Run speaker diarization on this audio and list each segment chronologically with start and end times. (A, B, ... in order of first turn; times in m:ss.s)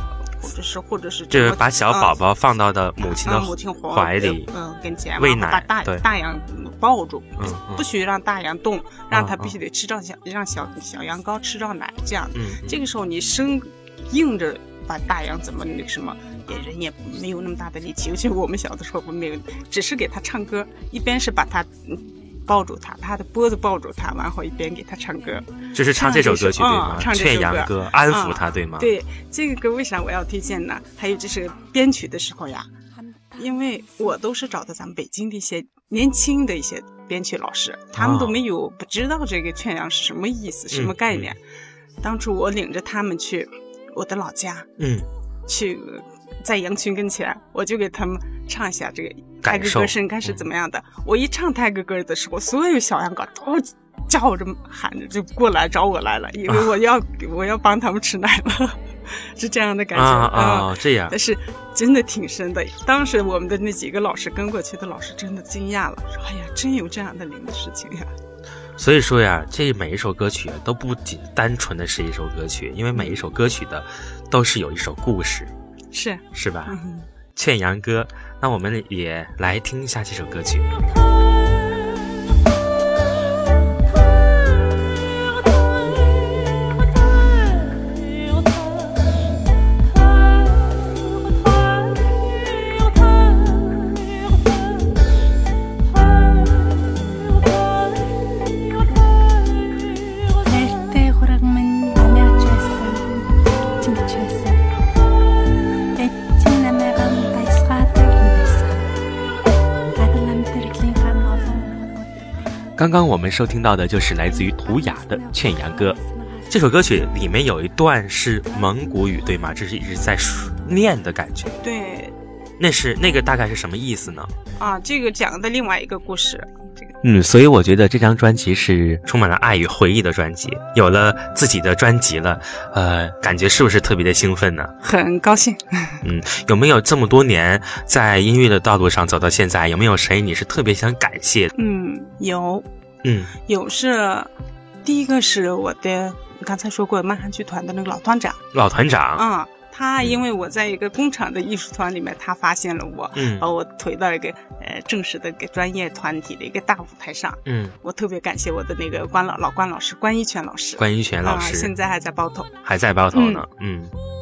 0:00.4-0:02.2 A
0:01.3-0:04.5 B
0:03.0-0:32.7 A
0:05.2-0:06.0 B
0:07.4-0:07.8 B
0:09.1-0:09.5 B
0:12.3-0:12.8 B
0:25.7-0:28.9 B
0:33.3-0:41.4 A
0:38.0-0:38.4 B
0:40.7-0:41.3 B
0:42.0-0:44.7 A
0:44.8-0:45.1 B
0:45.5-1:08.1 A
0:49.4-0:50.4 B
0:59.9-1:01.1 B
1:08.8-1:15.5 B
1:15.9-1:17.1 A
1:16.3-1:16.7 B
1:17.4-1:20.8 B
1:24.6-1:24.9 C
1:27.2-1:28.7 C
1:30.2-1:30.7 C
1:31.4-1:34.2 C
1:35.9-1:37.0 C
1:40.3-1:44.6 C
1:46.0-1:48.9 C
1:49.9-1:52.2 C
1:52.8-1:56.0 B
1:54.3-1:56.9 C
1:56.5-2:01.6 B
2:01.6-2:02.1 A
2:02.6-2:04.3 B
2:04.6-2:07.0 A
2:07.0-2:14.7 B
2:14.8-2:16.0 A
2:16.0-2:21.5 B
2:21.5-2:22.6 A
2:23.0-2:23.3 B
2:23.5-2:24.3 A
2:24.8-2:28.4 A
2:28.5-2:29.2 B
2:29.2-2:42.5 A
2:33.1-2:33.5 B
2:37.4-2:37.7 B
2:40.8-2:41.7 B
2:42.6-2:43.9 B
2:43.1-2:43.4 A